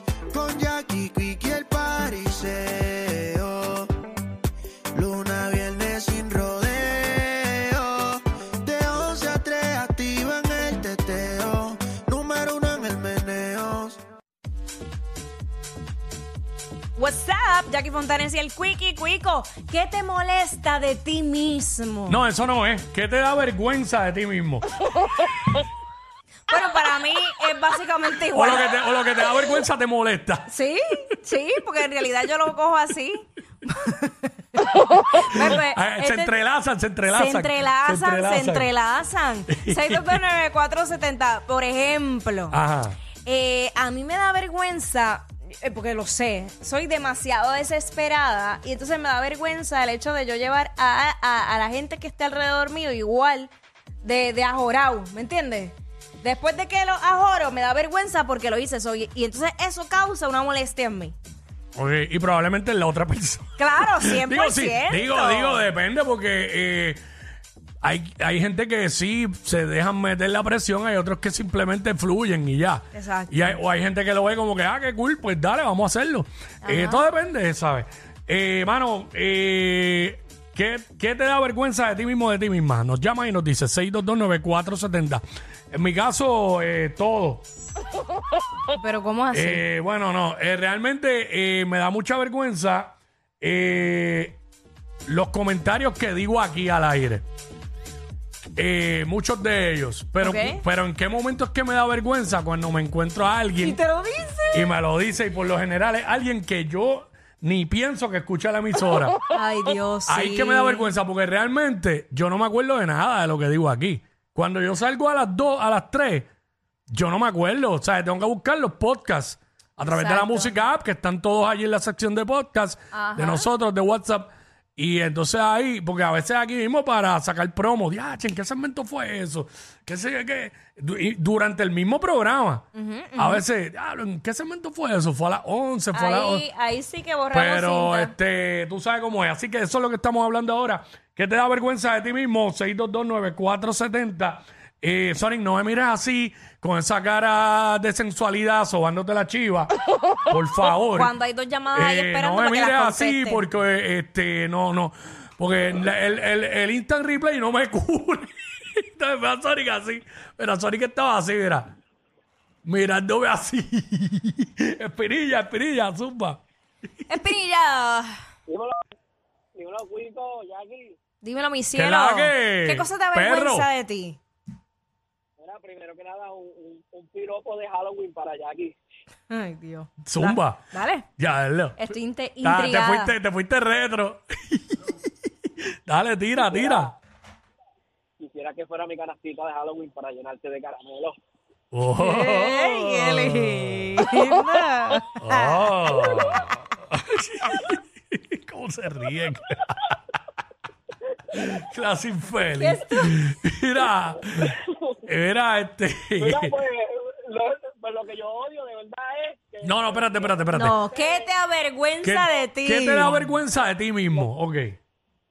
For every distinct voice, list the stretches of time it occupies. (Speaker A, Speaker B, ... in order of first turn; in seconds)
Speaker A: 0.3-3.9, 4.9-14.0
Speaker B: 17.0-22.2, 26.5-28.7, 30.5-36.3, 37.1-42.5, 43.2-53.5, 54.0-61.1, 63.6-65.7, 72.9-73.4, 76.6-77.0, 88.7-89.6, 100.2-100.6, 103.6-104.7, 109.3-111.0, 119.8-120.5, 122.9-123.5, 132.7-133.4, 135.9-138.1, 150.9-153.4, 167.1-168.2, 171.2-174.2, 179.3-181.1, 181.8-183.1, 192.0-196.2, 202.6-203.1, 210.5-213.3
Speaker C: 22.1-24.8, 28.3-30.5, 35.1-38.7, 39.5-40.2, 42.5-43.0, 61.7-67.0, 67.8-87.4, 89.3-94.4, 95.1-97.2, 98.6-103.8, 104.5-109.2, 110.1-116.3, 116.9-136.4, 137.3-149.7, 150.3-151.1, 151.7-161.7, 162.6-166.4, 171.7-173.7, 180.0-181.9, 182.4-186.9, 191.7-194.4, 195.2-200.0, 201.3-204.5, 205.0-206.5, 209.6-210.8, 212.0-214.8
Speaker D: 168.5-168.8, 169.5-171.0, 175.4-178.7, 186.5-186.8, 188.2-191.1, 204.5-204.9, 206.2-211.3